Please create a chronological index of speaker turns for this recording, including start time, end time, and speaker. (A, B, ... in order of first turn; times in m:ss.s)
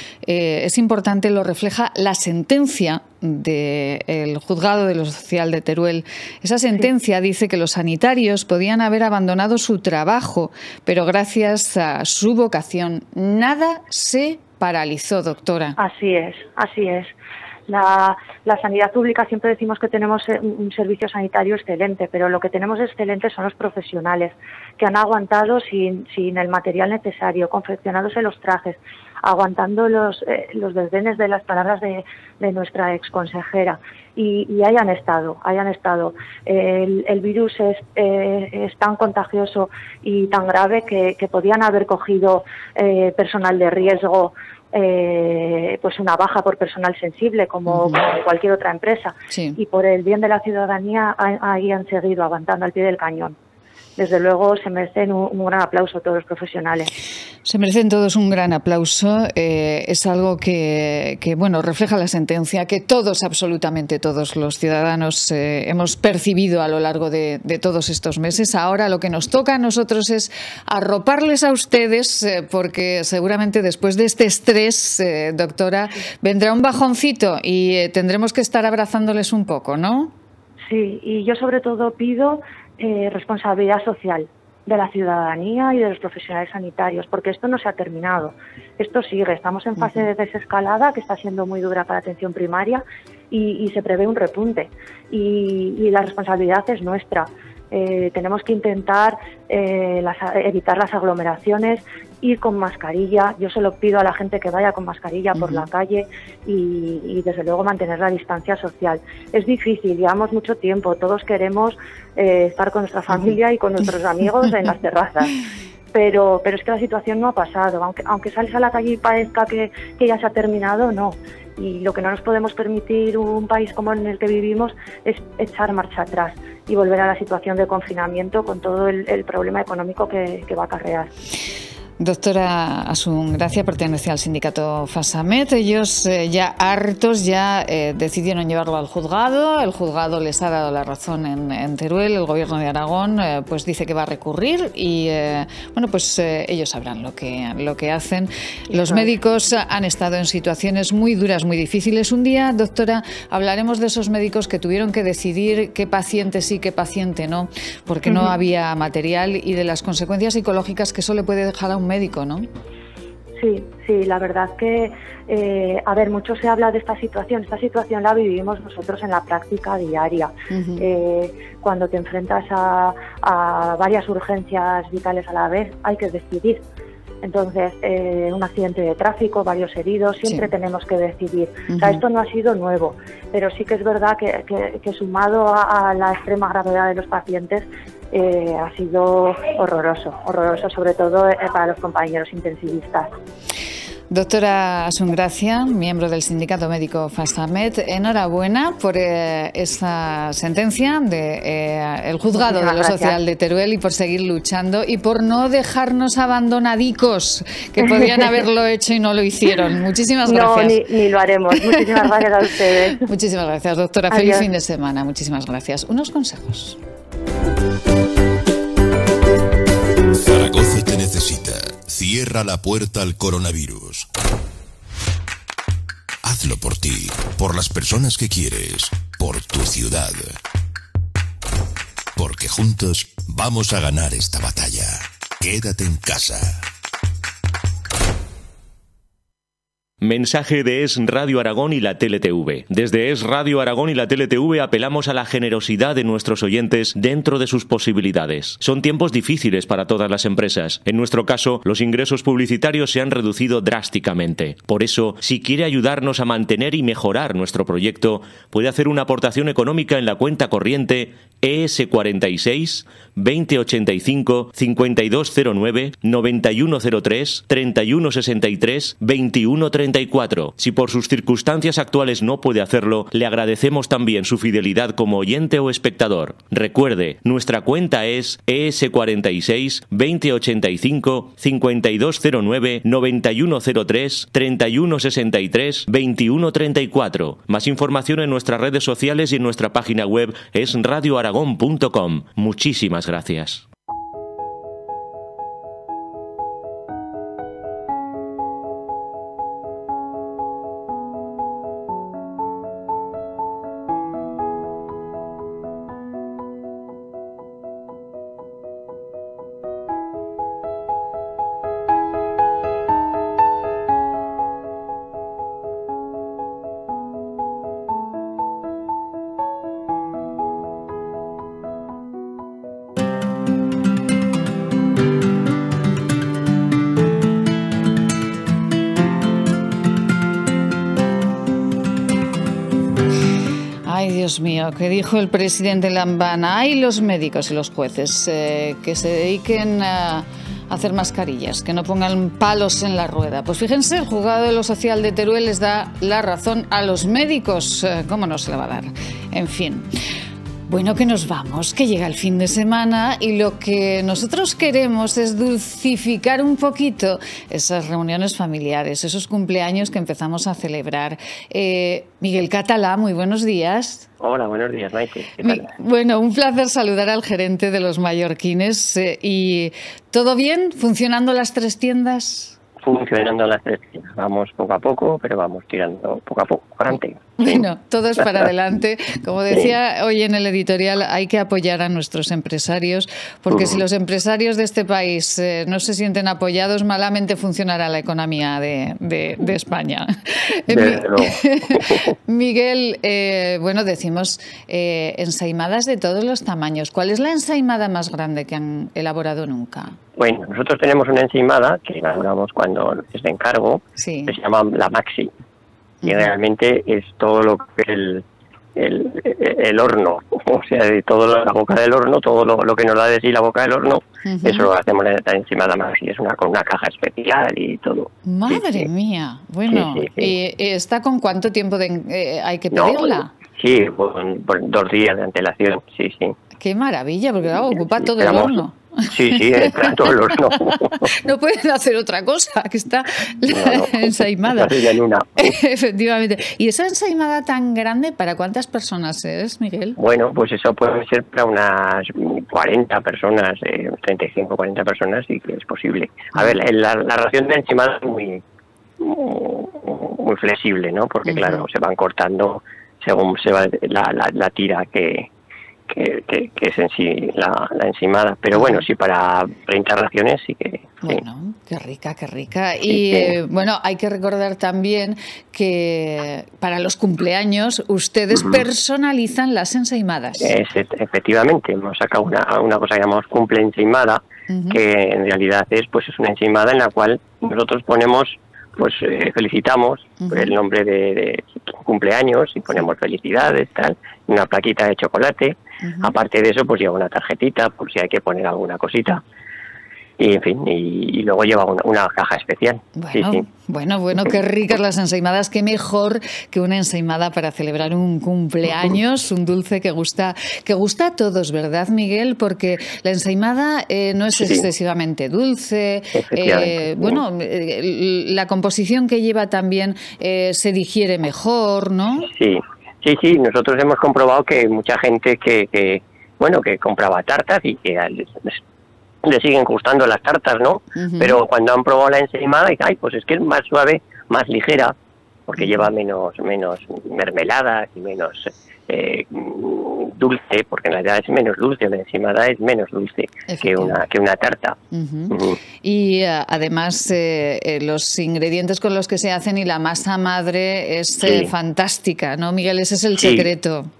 0:00.2-0:15.8 A
0:15.8-0:17.1 B
0:17.7-0:53.4 B
0:47.7-0:48.0 A
0:49.3-0:49.6 A
0:54.0-0:56.9 B
0:57.4-1:20.1 A
1:20.6-1:55.4 B
1:45.4-1:45.6 A
1:55.9-2:11.1 B
2:12.0-2:42.5 A
2:43.4-2:56.6 B
2:50.5-2:50.8 A
2:57.2-3:13.1 B
3:01.7-3:02.0 A
3:14.1-3:30.8 A
3:22.4-3:23.2 B
3:30.2-3:33.0 B
3:33.0-3:36.8 A
3:34.1-3:34.4 B
3:40.2-3:44.1 C
3:46.2-3:50.3 C
3:52.2-3:56.6 C
4:00.0-4:53.6 D
5:33.8-5:49.9 A
5:50.7-6:04.1 A
6:04.2-6:05.7 E
6:05.4-6:12.6 A
6:12.8-6:17.6 E
6:17.4-6:40.0 A
6:23.5-6:23.8 E
6:30.7-6:32.0 E
6:40.2-6:45.3 E
6:44.0-6:44.4 A
6:46.0-6:46.3 A
6:46.0-6:48.2 E
6:48.7-6:58.9 E
6:54.2-6:54.7 A
6:58.2-7:03.3 A
6:59.7-7:00.3 E
7:02.7-7:06.4 E
7:06.6-7:10.1 A
7:08.0-7:08.6 E
7:09.1-7:11.1 E
7:10.6-7:14.7 A
7:13.5-7:15.5 E
7:15.4-7:20.0 A
7:20.0-7:28.4 E
7:29.0-7:35.3 E
7:31.2-7:31.7 A
7:35.9-7:41.2 E
7:38.5-7:38.8 A
7:41.0-7:50.5 A
7:42.9-7:43.3 E
7:50.4-8:09.2 E
7:54.5-7:54.8 A
8:00.2-8:00.6 A
8:05.8-8:06.1 A
8:10.2-8:13.4 E
8:13.0-8:32.3 A
8:24.4-8:24.7 E
8:26.1-8:27.2 E
8:32.3-8:38.6 E
8:39.2-8:44.9 E
8:40.9-8:41.4 A
8:45.5-8:54.8 E
8:45.6-8:45.9 A
8:53.5-8:54.0 A
8:54.9-9:03.9 A
8:55.3-8:55.6 E
9:01.2-9:01.5 E
9:03.2-9:03.5 E